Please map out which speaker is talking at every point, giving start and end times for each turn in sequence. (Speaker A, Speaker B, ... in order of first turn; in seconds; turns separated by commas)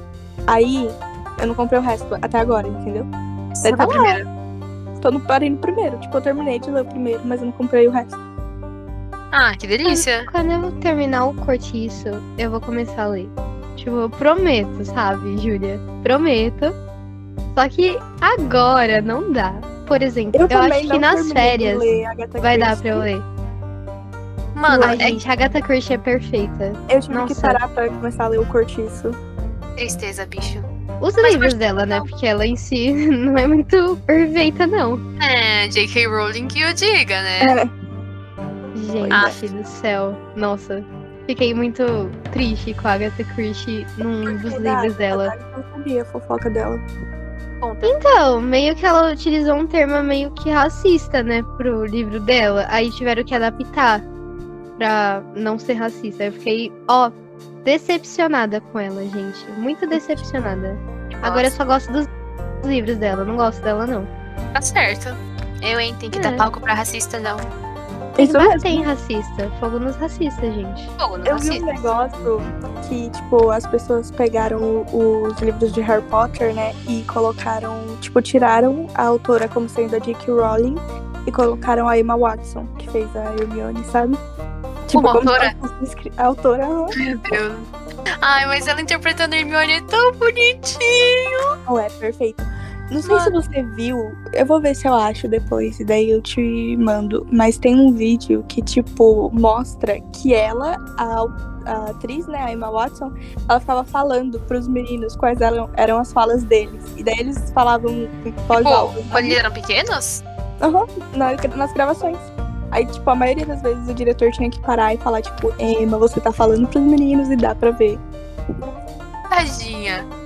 Speaker A: 0.5-3.1, Speaker B: 3.5-4.2, Speaker A: 3.6-4.2, Speaker A: 5.0-8.2, Speaker B: 9.3-10.3, Speaker C: 9.9-16.8, Speaker C: 17.5-23.2, Speaker A: 20.3-23.1, Speaker B: 24.5-25.2, Speaker A: 24.7-25.2, Speaker C: 24.8-27.6, Speaker A: 26.9-29.2, Speaker B: 29.8-30.7, Speaker C: 31.0-35.0, Speaker B: 31.2-32.1, Speaker B: 35.2-37.5, Speaker A: 37.4-37.7, Speaker C: 38.8-45.3, Speaker A: 39.0-39.4, Speaker B: 39.1-39.4, Speaker A: 44.2-46.8, Speaker B: 47.6-48.0, Speaker C: 47.8-54.0, Speaker C: 54.8-62.1, Speaker B: 61.2-61.5, Speaker C: 62.6-64.1, Speaker B: 64.5-67.5, Speaker C: 66.1-66.5, Speaker A: 68.1-68.9, Speaker C: 68.2-70.9, Speaker B: 71.0-72.0, Speaker A: 71.2-84.2, Speaker A: 84.9-86.9, Speaker B: 84.9-85.5, Speaker B: 86.9-87.7, Speaker B: 88.2-91.5, Speaker A: 91.7-109.4, Speaker B: 93.0-93.3, Speaker B: 108.5-110.2, Speaker A: 110.6-118.0, Speaker B: 119.3-120.1